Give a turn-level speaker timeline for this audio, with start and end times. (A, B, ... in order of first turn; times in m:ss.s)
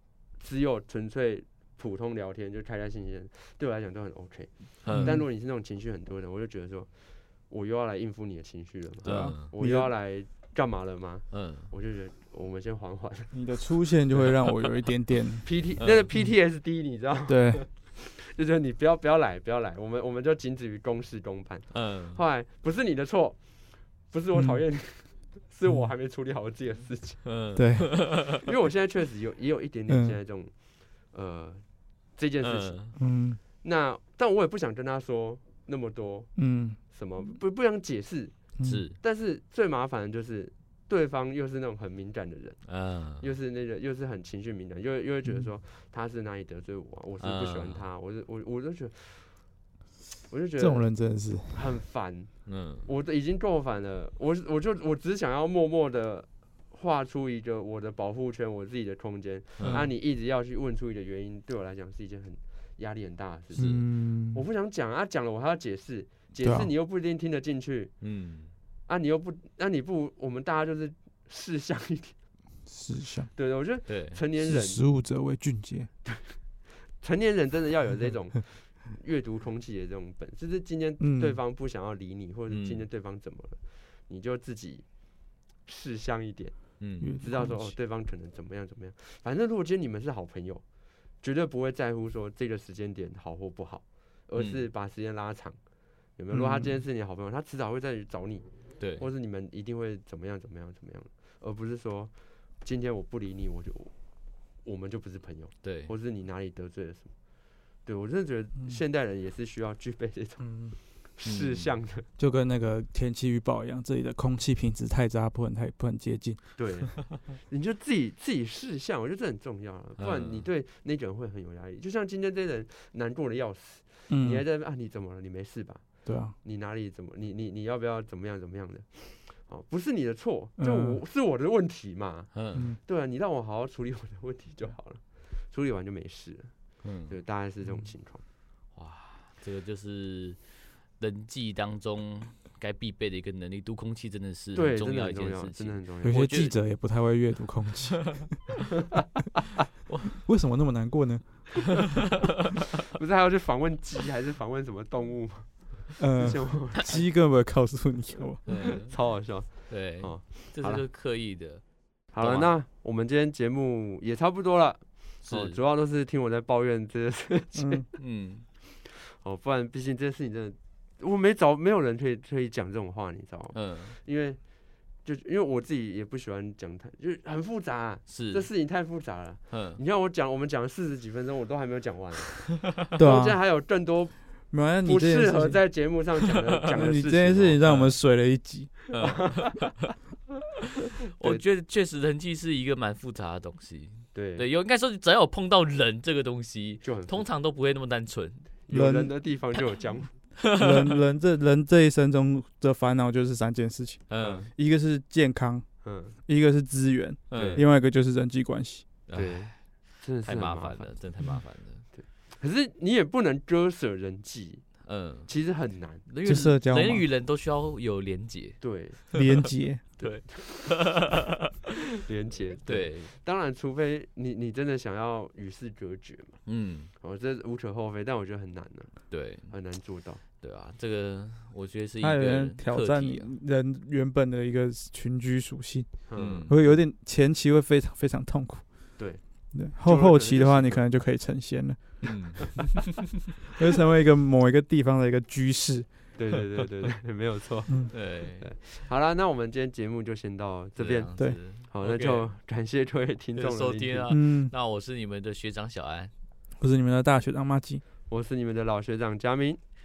0:00.3-0:13.3 A
0:04.8-0:05.2 B
0:04.9-0:05.2 C
0:09.0-0:09.9 C
0:09.0-0:09.5 B
0:11.3-0:11.7 B
0:13.3-0:15.5 C
0:15.4-0:27.4 A
0:15.8-0:16.1 B
0:17.3-0:17.6 C
0:21.7-0:22.2 B
0:24.3-0:24.6 C
0:27.2-0:28.4 B
0:27.5-0:27.9 C
0:28.2-0:31.6 A
0:29.9-0:30.2 C
0:32.1-0:33.0 A
0:32.4-0:33.0 B
0:33.0-0:33.4 C
0:33.6-0:42.7 A
0:36.4-0:36.8 C
0:38.6-0:39.0 B
0:42.6-0:43.3 B
0:43.2-0:49.5 A
0:47.2-0:47.8 B
0:50.3-0:50.9 A
0:50.6-0:51.6 C
0:51.5-1:07.9 A
0:52.4-0:52.9 B
0:59.6-0:59.8 B
1:03.5-1:04.4 C
1:03.6-1:03.8 B
1:06.4-1:06.7 C
1:08.0-1:08.5 B
1:08.9-1:12.2 A
1:12.7-1:13.3 C
1:13.3-1:14.8 A
1:13.9-1:14.2 B
1:14.4-1:15.9 C
1:16.0-1:30.6 A
1:21.0-1:21.4 C
1:22.5-1:22.8 B
1:26.8-1:27.2 B
1:27.0-1:27.7 C
1:31.2-1:43.9 A
1:34.4-1:34.6 B
1:36.3-1:36.8 C
1:38.8-1:39.0 B
1:44.6-1:47.1 A
1:45.6-1:45.9 B
1:47.8-1:52.1 A
1:50.4-1:50.8 C
1:51.2-1:51.7 B
1:52.2-1:56.5 C
1:56.6-2:05.9 A
2:00.0-2:00.5 B
2:04.1-2:04.4 C
2:06.0-2:06.3 C
2:06.4-2:18.2 A
2:10.6-2:11.0 C
2:12.3-2:12.7 B
2:16.8-2:17.2 B
2:18.7-2:26.5 B
2:24.5-2:26.5 A
2:26.0-2:28.3 C
2:29.9-2:30.2 B
2:30.2-2:31.9 C
2:32.9-2:37.1 A
2:36.0-2:38.6 C
2:38.5-2:42.5 B
2:38.5-2:40.8 A
2:42.1-2:47.9 A
2:45.2-2:45.6 B
2:47.5-2:47.8 C
2:48.0-2:48.4 B
2:48.8-3:07.6 A
2:53.5-2:54.0 B
2:58.1-2:58.5 B
2:59.5-2:59.8 B
3:02.9-3:03.4 C
3:04.5-3:05.6 C
3:06.7-3:09.0 C
3:07.6-3:07.9 B
3:08.9-3:09.8 B
3:11.1-3:18.5 B
3:14.1-3:14.4 A
3:16.8-3:17.3 A
3:18.7-3:20.2 A
3:18.7-3:19.1 C
3:20.4-3:20.9 B
3:20.5-3:28.9 C
3:24.1-3:24.5 B
3:24.2-3:24.5 A
3:25.8-3:26.2 A
3:27.3-3:27.6 B
3:27.3-3:27.6 A
3:29.1-3:31.8 B
3:29.1-3:30.9 A
3:31.9-3:36.0 A
3:34.8-3:35.3 B
3:36.0-3:39.2 B
3:36.2-3:37.1 C
3:38.6-3:39.2 A
3:39.1-3:39.8 C
3:40.0-3:41.5 B
3:40.0-3:40.8 A
3:42.0-3:46.4 A
3:42.6-3:43.1 B
3:46.4-3:46.9 B
3:47.0-3:50.2 A
3:49.1-3:49.5 B
3:50.4-3:53.3 B
3:52.0-3:58.6 C
3:56.1-3:56.6 A
3:56.2-3:56.6 B
3:59.0-3:59.2 A
3:59.5-4:02.4 C
3:59.7-4:00.9 A
4:02.0-4:02.7 B
4:03.6-4:05.9 C
4:06.2-4:14.1 A
4:07.9-4:08.5 B
4:10.8-4:12.3 B
4:13.4-4:16.1 B
4:14.1-4:14.5 C
4:16.6-4:17.8 C
4:18.1-4:19.6 A